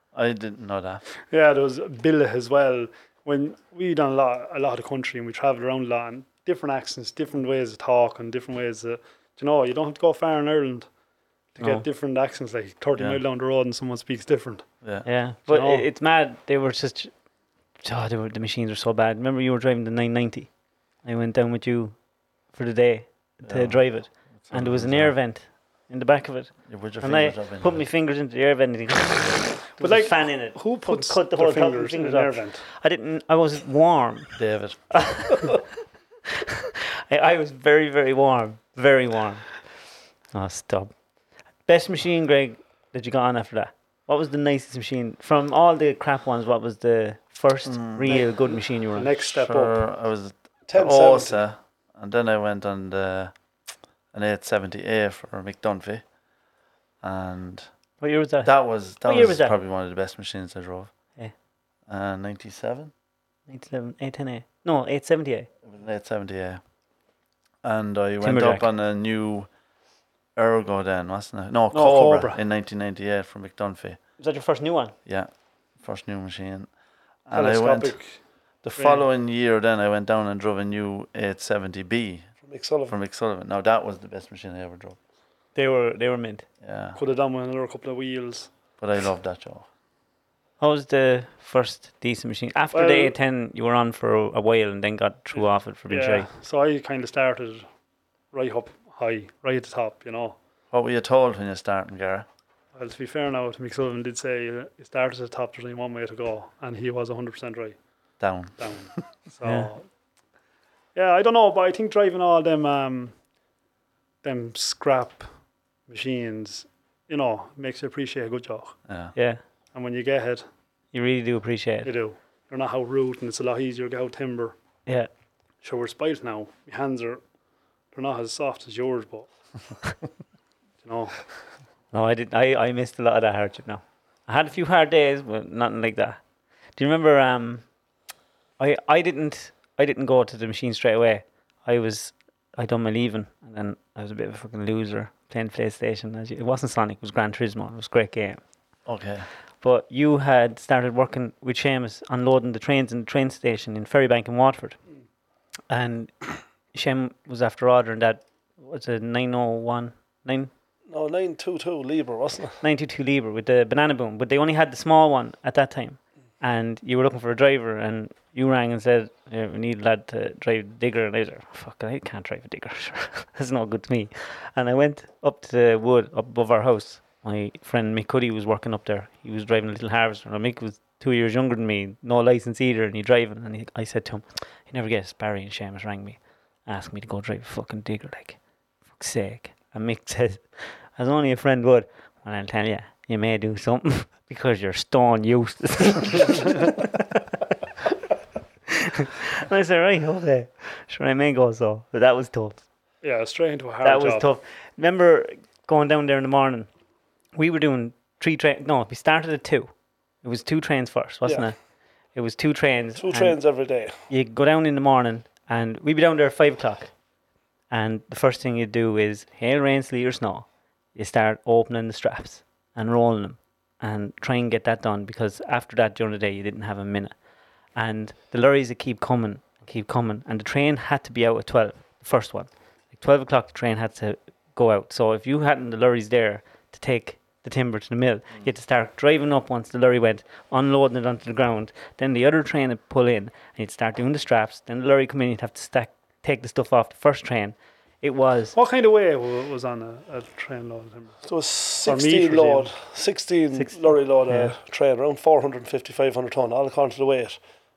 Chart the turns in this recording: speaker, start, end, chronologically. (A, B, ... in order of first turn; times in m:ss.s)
0:00.1-0:01.0 A
0:01.3-0:10.9 B
0:11.6-0:14.6 B
0:11.6-0:11.8 C
0:15.0-0:17.1 C
0:15.4-0:15.8 B
0:17.8-0:20.5 C
0:21.0-0:22.0 C
0:22.5-0:34.4 C
0:23.4-0:25.1 A
0:26.7-0:27.8 A
0:29.8-0:32.6 B
0:34.4-0:35.0 A
0:34.9-0:35.7 C
0:36.4-0:39.6 C
0:40.3-0:40.9 C
0:41.6-0:49.1 C
0:47.6-0:48.2 A
0:48.1-0:49.8 B
0:49.2-0:53.3 A
0:50.7-0:51.4 D
0:54.1-0:56.0 A
0:57.0-0:57.7 A
0:58.0-0:59.5 C
0:58.4-1:00.9 A
1:01.9-1:02.9 A
1:03.5-1:05.5 C
1:05.6-1:06.6 A
1:07.6-1:09.5 A
1:08.2-1:08.7 C
1:10.4-1:14.0 A
1:11.7-1:12.4 B
1:14.2-1:14.9 C
1:15.0-1:16.7 A
1:17.3-1:18.0 A
1:17.3-1:18.2 B
1:18.6-1:22.3 A
1:18.8-1:19.0 B
1:22.4-1:22.9 D
1:22.9-1:25.0 A
1:25.5-1:26.4 C
1:26.6-1:27.0 A
1:27.0-1:28.5 B
1:28.8-1:29.6 A
1:30.6-1:36.3 C
1:32.7-1:33.1 B
1:35.9-1:37.6 B
1:38.3-1:40.4 B
1:40.7-1:42.2 A
1:42.7-1:47.8 B
1:48.2-1:48.6 A
1:48.6-1:49.8 B
1:49.4-1:49.7 C
1:50.9-1:53.1 B
1:54.2-1:55.3 B
1:55.9-1:58.8 B
1:58.9-1:59.1 A
1:59.1-1:59.4 C
1:59.7-2:00.4 B
2:00.9-2:01.9 C
2:01.8-2:04.5 B
2:05.6-2:07.2 B
2:07.9-2:09.3 B
2:10.8-2:11.3 B
2:11.9-2:16.2 C
2:16.8-2:17.6 C
2:18.6-2:28.4 C
2:28.8-2:29.3 A
2:29.6-2:34.8 C
2:35.7-2:40.5 C
2:40.9-2:42.6 D
2:42.6-3:08.4 C
3:08.9-3:17.4 C
3:18.7-3:22.6 C
3:23.0-3:24.3 B
3:23.8-3:26.7 C
3:27.4-3:29.7 C
3:30.2-3:31.6 C
3:31.2-3:31.5 D
3:32.1-3:33.4 C
3:33.0-3:34.0 D
3:34.1-3:36.9 C
3:37.7-3:47.1 C
3:47.7-4:08.6 C
4:08.5-4:11.2 B
4:11.2-4:17.4 D
4:11.8-4:12.7 B
4:13.5-4:14.5 C